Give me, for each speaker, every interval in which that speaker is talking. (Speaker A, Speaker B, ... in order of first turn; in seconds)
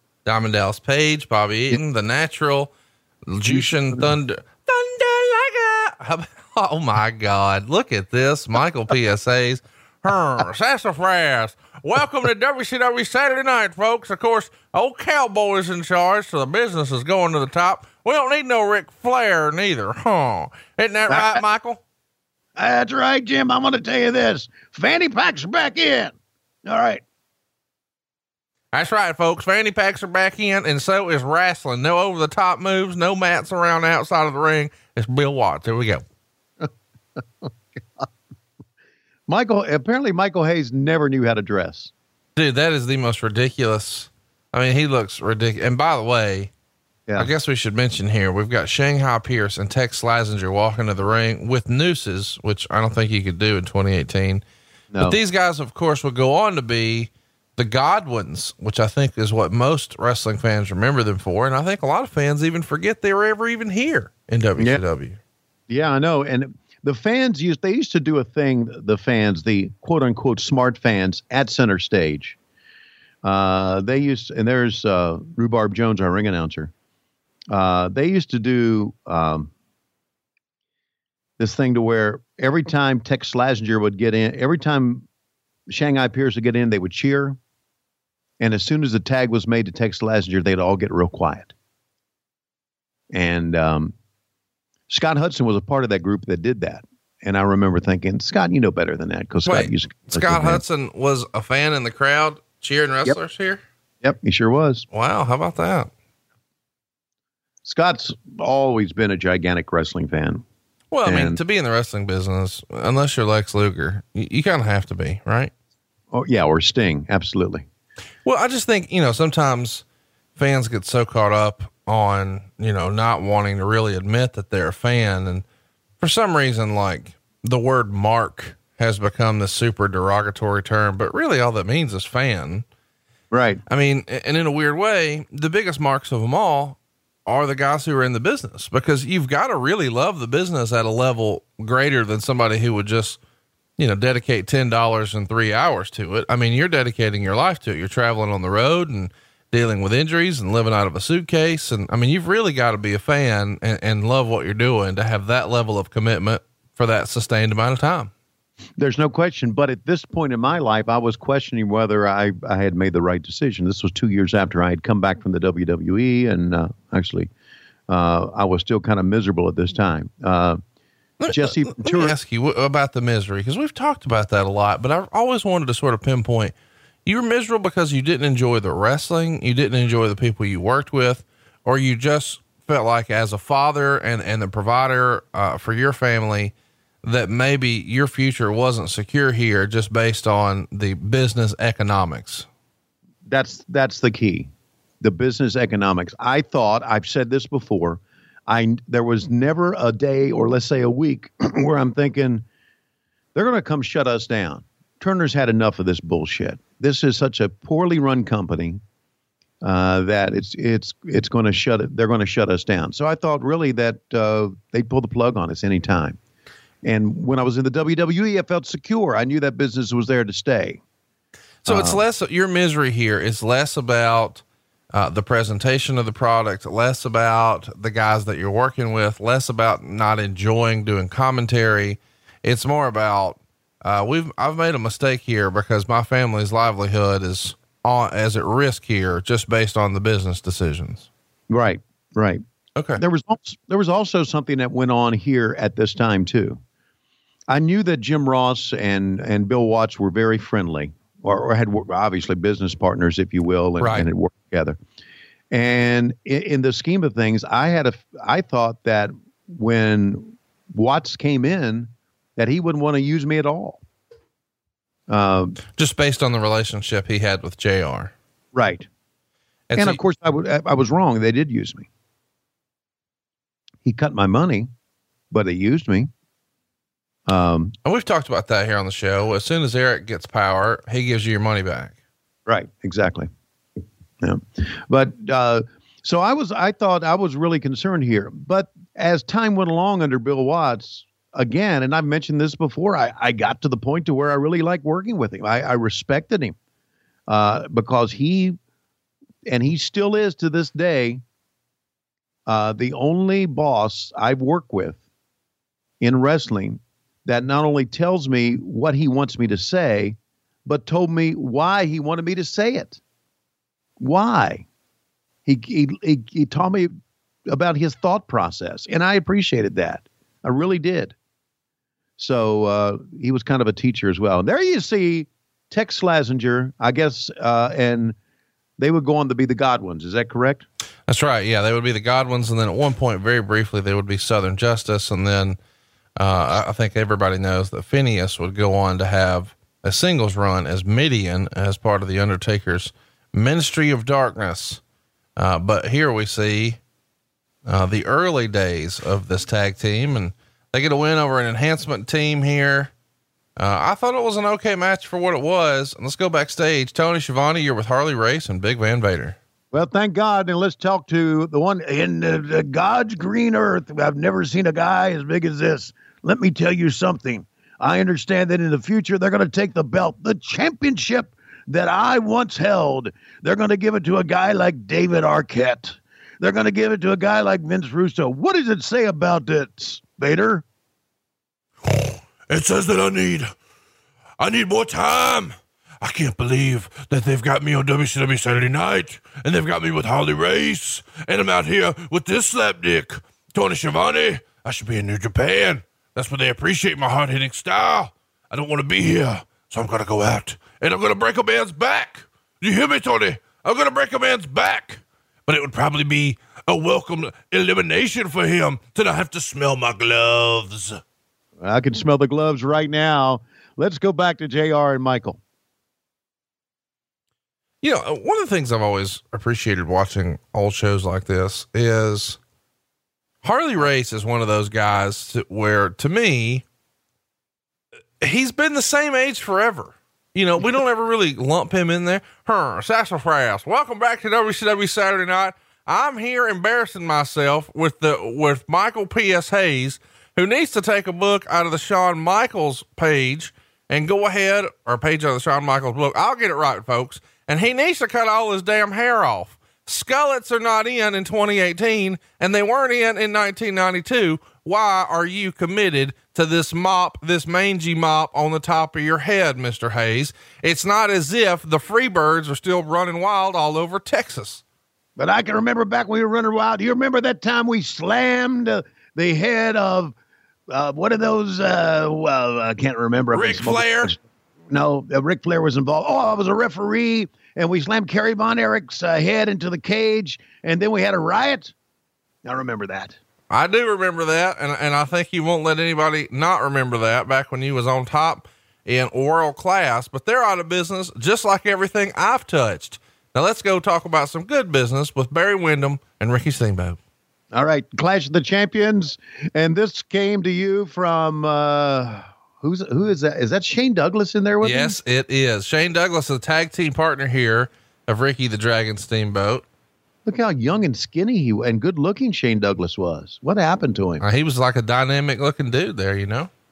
Speaker A: 0.2-2.7, 3.2-21.8, 28.7-36.0, 42.4-46.5, 47.2-54.4, 55.0-65.2, 99.5-103.6, 104.9-105.9, 110.9-115.5, 118.2-119.8, 120.4-125.5, 126.0-132.7, 133.7-143.2, 143.8-158.1, 171.2-192.5, 221.6-241.1, 242.8-243.0, 253.8-254.1, 265.8-268.1, 269.7-270.0, 277.9-281.9, 331.1-335.6, 336.2-344.8, 345.4-346.8, 347.6-352.9, 353.6-359.4, 417.8-422.4, 423.4-426.6, 428.2-464.6, 473.3-474.1, 483.5-497.0, 504.6-509.6, 514.2-516.5
Speaker B: 3.5-4.0, 21.1-21.4, 22.6-27.0, 39.3-41.9, 54.9-55.2, 65.7-72.4, 73.2-76.7, 77.5-79.5, 81.4-85.0, 85.7-87.4, 88.4-91.5, 93.1-93.9, 94.9-100.6, 104.0-104.8, 107.7-110.4, 111.0-111.4, 116.1-117.7, 133.3-133.6, 158.8-167.3, 167.9-170.6, 171.3-172.2, 193.3-194.5, 195.0-202.4, 203.3-208.8, 209.6-216.2, 216.8-220.8, 221.7-222.0, 241.5-242.4, 243.0-246.6, 247.5-254.8, 255.5-263.8, 265.1-265.6, 268.5-268.9, 269.8-271.9, 273.9-274.7, 275.3-276.1, 277.3-277.7, 282.5-283.3, 284.2-296.6, 297.3-298.6, 299.5-301.2, 302.5-305.0, 306.0-313.0, 314.0-314.6, 315.5-316.9, 317.5-321.1, 322.2-328.2, 328.8-330.6, 359.7-380.6, 411.6-415.4, 465.2-470.1, 470.7-481.7, 482.4-483.2, 497.5-505.0, 510.2-514.2
Speaker C: 381.9-383.5, 384.4-385.5, 386.0-410.9